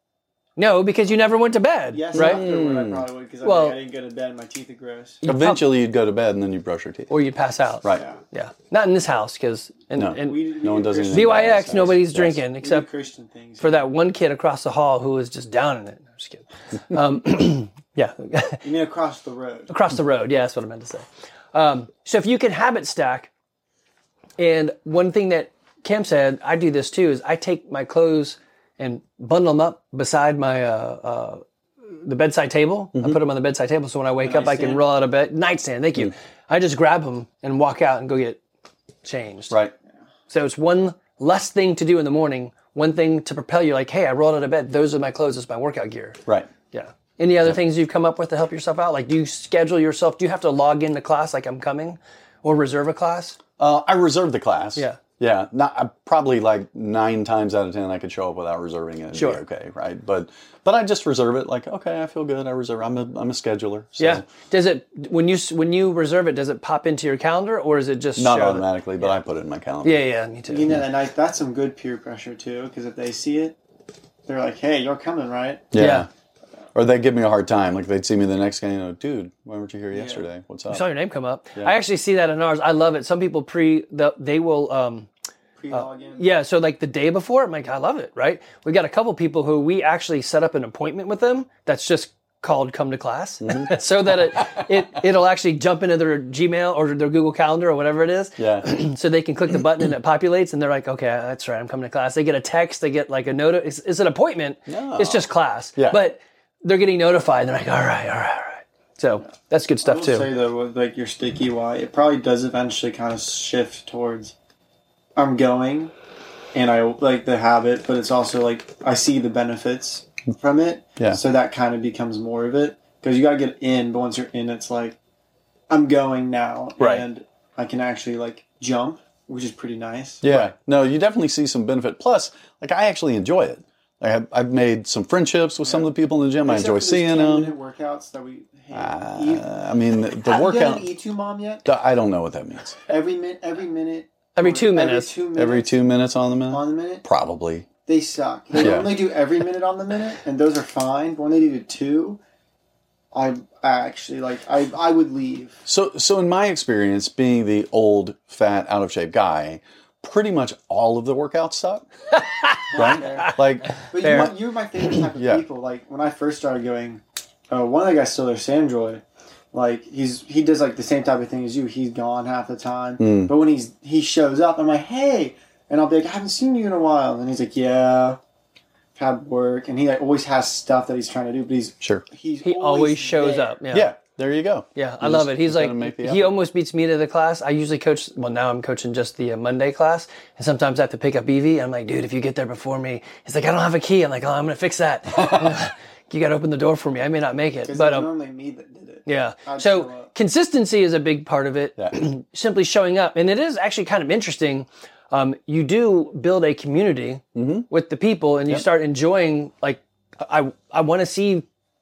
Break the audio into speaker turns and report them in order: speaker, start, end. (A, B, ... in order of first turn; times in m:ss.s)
0:00.6-0:02.4 A
0:01.9-0:05.2 B
0:02.1-0:03.1 C
0:03.4-0:03.8 A
0:05.2-0:05.6 A
0:05.2-0:07.1 C
0:07.1-0:10.4 A
0:10.0-0:12.4 C
0:10.2-0:11.8 B
0:11.1-0:12.9 A
0:12.6-0:13.8 B
0:13.6-0:18.7 A
0:18.6-0:19.7 B
0:19.7-0:23.3 A
0:24.4-0:38.4 A
0:34.2-0:34.8 B
0:39.0-0:39.6 A
0:40.3-0:53.4 A
0:53.6-1:04.3 C
0:59.1-0:59.4 A
1:04.0-1:09.1 A
1:08.2-1:10.0 C
1:09.8-1:10.8 A
1:10.5-1:13.6 B
1:14.2-1:15.7 B
1:15.7-1:16.1 C
1:15.8-1:16.1 A
1:16.8-1:20.8 C
1:19.9-1:20.2 B
1:20.7-1:25.1 A
1:25.6-1:26.2 B
1:25.7-1:50.3 A
1:33.4-1:33.7 C
1:38.4-1:38.7 C
1:44.7-1:46.0 C
1:49.8-1:54.4 B
1:55.2-1:55.9 B
1:56.5-2:05.0 B
2:05.7-2:10.5 B
2:10.2-2:17.5 C
2:16.4-2:19.5 B
2:18.7-2:20.9 C
2:20.2-2:21.7 B
2:21.6-2:22.9 C
2:22.9-2:26.0 B
2:24.4-2:25.1 A
2:25.4-2:27.7 C
2:26.5-2:27.0 B
2:27.9-2:32.2 B
2:28.6-2:29.0 C
2:33.1-2:35.6 B
2:35.7-2:41.9 C
2:42.2-2:43.3 A
2:42.7-2:58.2 B
2:42.7-2:44.3 C
2:44.0-2:44.3 A
2:45.2-2:45.4 C
2:53.0-2:53.3 C
2:59.0-3:03.6 B
3:02.4-3:03.9 A
3:03.7-3:06.3 C
3:04.8-3:18.1 A
3:17.6-3:20.1 B
3:19.1-3:31.5 A
3:27.4-3:27.7 C